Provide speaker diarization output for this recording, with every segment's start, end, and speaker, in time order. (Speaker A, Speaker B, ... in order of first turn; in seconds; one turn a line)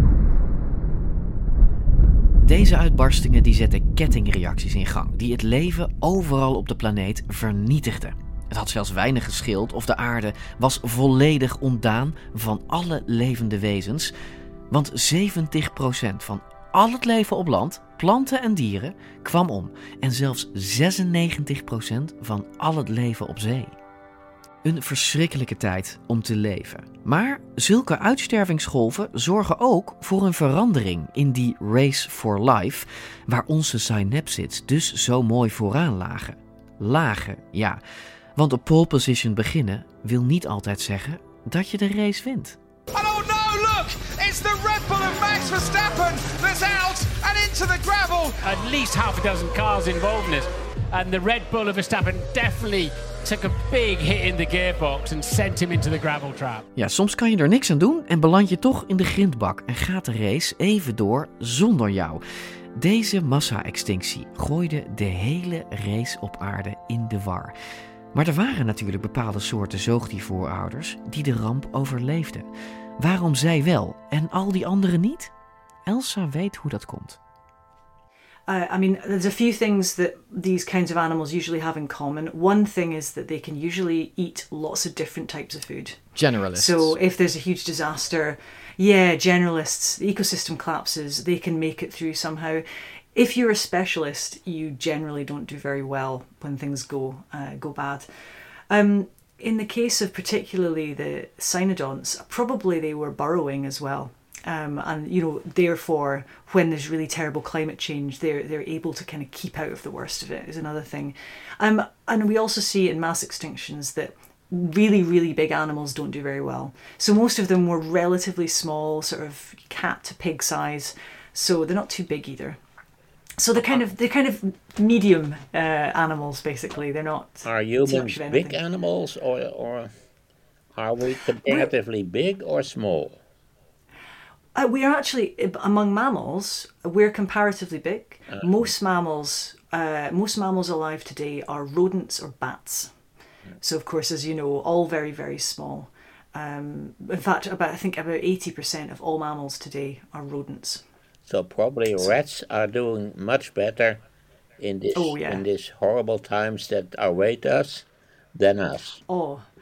Speaker A: 2.4-14.1
Speaker A: 14.7-23.7
Speaker A: 24.6-37.8
Speaker A: 38.4-42.6
Speaker B: 42.9-48.4
Speaker C: 48.4-56.6
Speaker A: 56.7-62.2
Speaker A: 62.7-67.5
Speaker A: 68.1-72.5
Speaker A: 73.0-75.3
Speaker A: 75.8-77.2
Speaker D: 78.5-86.0
Speaker A: 86.2-87.0
Speaker D: 86.5-98.1
Speaker D: 98.7-122.6
Speaker D: 123.4-128.6
Speaker E: 127.5-129.9
Speaker E: 130.7-133.2
Speaker D: 134.6-142.9
Speaker E: 138.3-138.7
Speaker D: 143.6-150.8
Speaker E: 151.3-154.0
Speaker E: 154.6-159.0
Speaker D: 154.9-155.4
Speaker D: 159.1-159.4